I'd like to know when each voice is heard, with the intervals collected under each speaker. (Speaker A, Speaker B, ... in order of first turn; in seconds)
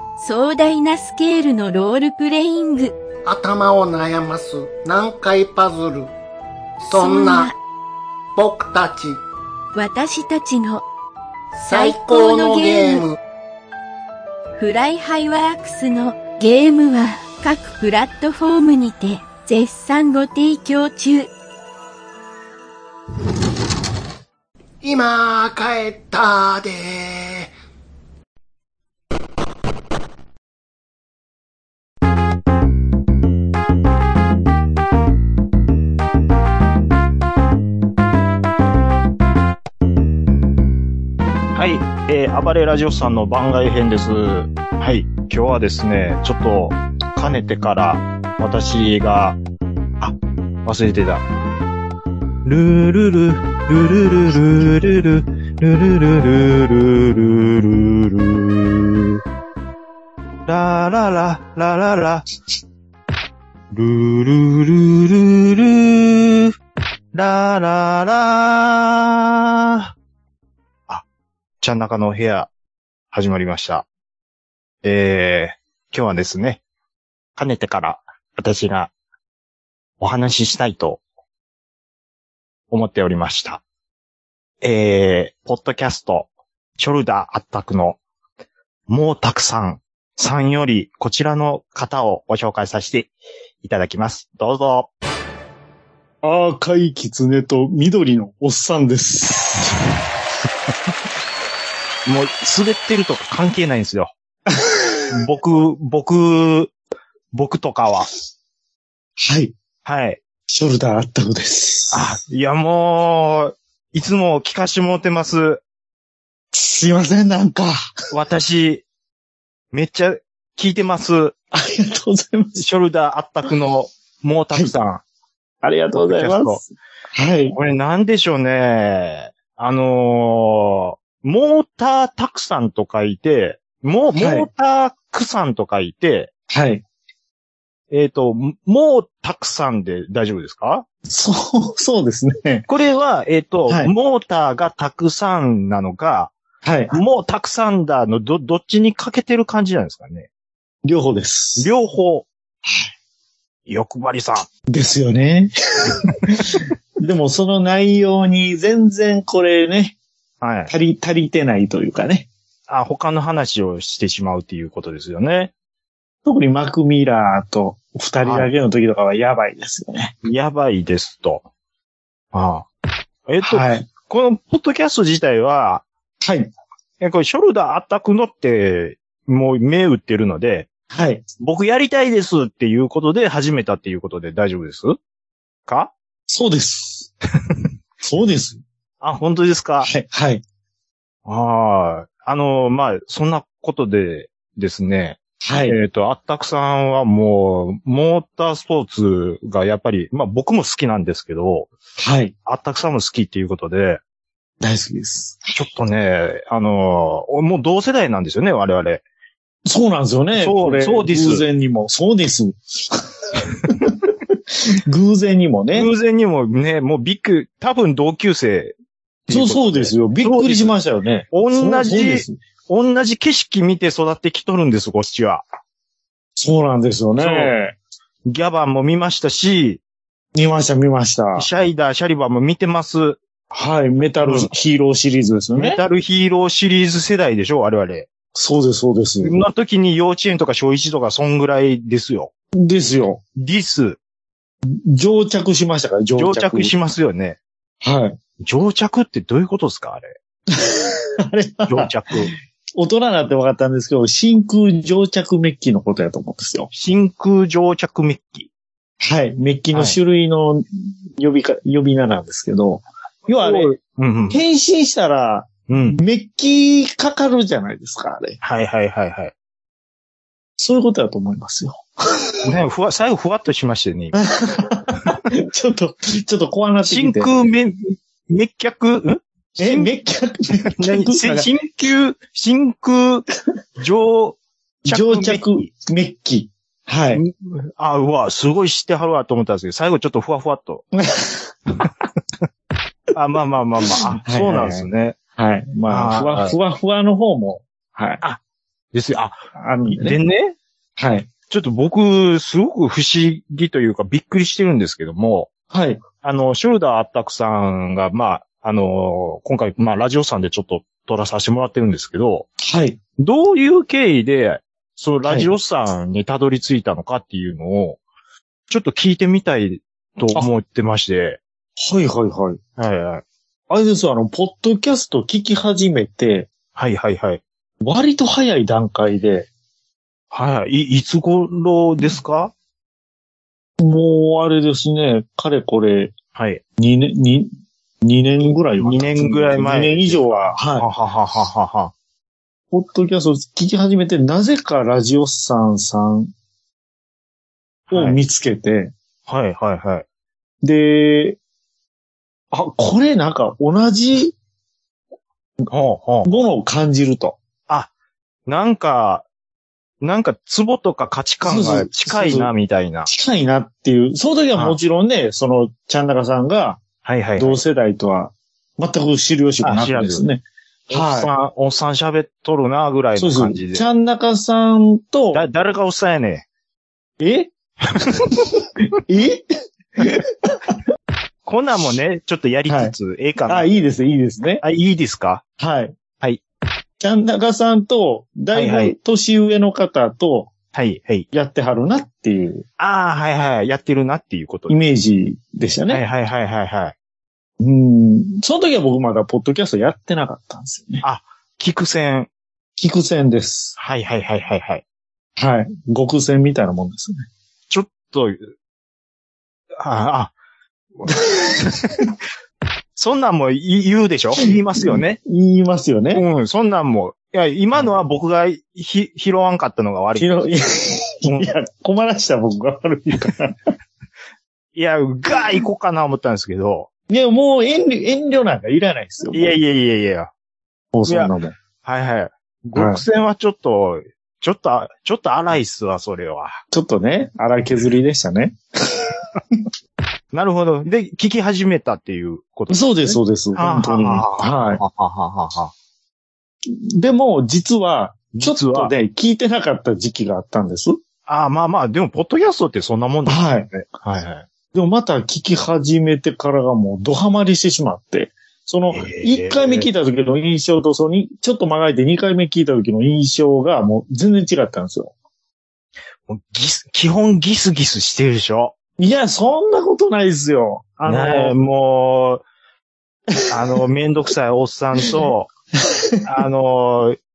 Speaker A: 0.2-3.0, 6.9-7.6, 9.7-10.9, 11.7-13.1, 14.6-21.3
Speaker B: 3.3-6.1, 6.8-7.5, 8.3-9.2, 11.6-13.2, 24.8-27.5
Speaker C: 41.5-49.4, 50.0-51.2, 52.4-59.2, 60.5-62.3, 63.7-66.5, 67.1-69.9, 71.6-72.5, 73.1-73.9, 74.8-76.6, 77.4-78.9, 80.0-81.0, 82.7-83.6, 84.6-88.0, 88.9-93.1, 93.6-94.9, 102.1-104.1, 105.1-106.7, 107.3-108.1, 109.8-110.2, 111.9-115.6, 118.1-118.8, 119.7-121.3, 122.6-125.0, 126.0-126.6, 127.5-136.3, 137.9-140.9, 142.7-146.3, 146.9-150.3, 151.6-152.3, 153.7-154.5, 160.4-160.7, 162.7-165.5, 168.2-168.5, 170.2-171.4, 172.3-172.7, 173.3-175.8, 177.0-180.7, 181.4-185.0, 185.7-185.9, 189.0-189.9, 191.3-201.7, 202.4-204.0, 205.6-209.0, 210.4-211.4, 215.7-218.8, 219.3-220.7, 221.3-225.4, 227.2-227.5, 228.3-229.8, 231.4-233.2, 234.2-234.5, 235.6-238.1, 239.2-242.3, 243.4-244.0, 246.2-247.4, 248.4-250.2, 251.7-252.3, 256.7-258.5, 259.7-260.0, 263.4-264.4, 265.7-266.0, 268.4-269.3, 272.4-274.3, 276.9-279.9, 280.6-283.3, 283.8-285.7, 287.1-290.9, 293.1-295.2, 295.9-296.6, 298.9-299.4, 299.9-300.6, 301.5-305.5, 306.2-312.5, 313.2-318.0, 318.7-321.4, 322.8-323.2, 326.8-327.4, 330.3-332.5, 336.4-336.6, 338.8-341.9, 347.9-348.2, 349.3-350.1, 355.7-356.3, 358.5-359.2, 360.0-363.1, 367.0-367.6, 369.6-370.2, 370.9-373.9, 375.3-376.4, 378.0-378.5, 381.4-383.9, 384.6-385.4, 388.5-388.9, 390.7-391.3, 392.8-394.7, 395.9-396.9, 401.0-402.3, 403.8-404.8, 407.7-408.5, 409.8-410.3, 411.0-411.9, 413.0-415.2, 416.1-420.3, 421.3-421.5, 424.8-426.9, 429.3-430.3, 431.1-431.3, 431.8-436.6, 440.3-445.7, 448.3-448.9, 451.3-454.5, 458.9-459.9, 466.3-468.8, 471.1-472.4, 473.5-475.5, 476.2-477.2
Speaker D: 96.2-99.8, 104.5-104.8, 109.2-109.5, 110.5-112.1, 116.5-117.8, 121.5-122.6, 125.6-127.6, 134.2-134.5, 136.5-136.8, 141.1-142.7, 146.6-147.0, 150.8-151.7, 154.7-160.0, 160.7-162.3, 166.2-170.1, 173.4-173.9, 176.2-176.5, 180.9-181.2, 186.3-187.1, 188.0-188.6, 189.8-190.4, 195.4-195.8, 202.0-202.3, 204.6-205.6, 209.7-214.1, 214.7-215.9, 219.3-222.4, 226.4-227.8, 230.3-231.5, 233.5-235.8, 238.3-239.4, 242.6-243.2, 244.7-246.7, 247.8-248.2, 250.5-251.9, 252.8-256.7, 259.0-260.6, 261.2-263.7, 264.3-268.4, 270.6-272.4, 274.1-277.3, 279.6-281.5, 284.9-287.2, 290.9-291.6, 294.2-298.2, 299.6-300.2, 301.0-301.3, 305.7-306.0, 312.6-313.0, 315.2-315.5, 321.8-322.6, 323.7-326.5, 327.8-329.5, 333.8-336.1, 336.8-337.5, 338.0-340.9, 342.7-346.3, 347.9-348.9, 350.6-351.4, 352.5-354.4, 356.2-357.4, 361.4-362.5, 363.1-366.8, 367.4-371.3, 373.2-375.4, 377.2-377.5, 379.1-379.4, 380.0-380.8, 382.7-382.9, 383.5-384.6, 385.6-385.9, 387.0-390.5, 391.3-392.6, 394.7-396.0, 397.6-401.0, 402.8-403.8, 405.4-407.3, 414.4-416.2, 420.2-423.6, 427.1-429.5, 430.9-431.6, 432.8-433.0, 436.7-439.6, 442.7-444.8, 446.7-451.0, 453.3-453.7, 454.7-465.1, 469.0-471.6, 475.9-476.1